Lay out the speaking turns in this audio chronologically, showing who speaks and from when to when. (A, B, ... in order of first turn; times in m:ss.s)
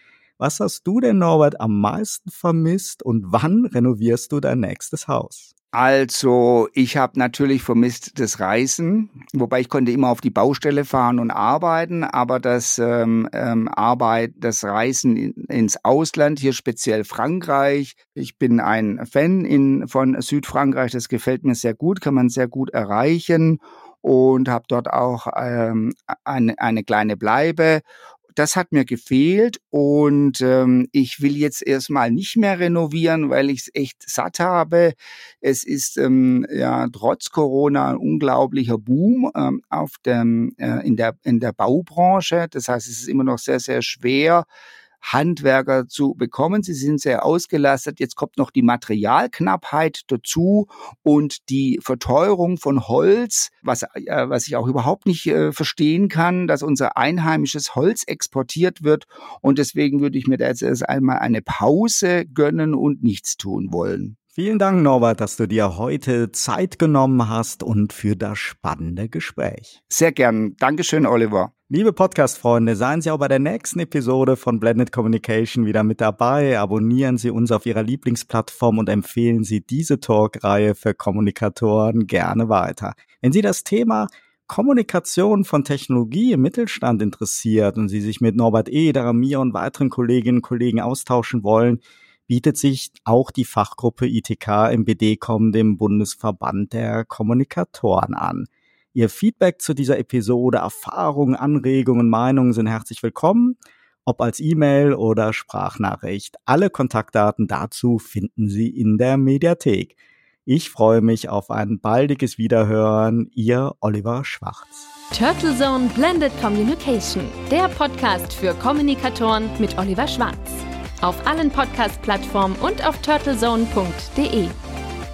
0:00.4-0:05.5 A
0:05.7-0:27.8 B
0:28.4-0:44.5 B
0:45.0-1:04.2 B
1:04.3-1:09.8 A
1:09.9-1:11.5 B
1:11.7-1:54.9 A
1:55.1-2:04.6 C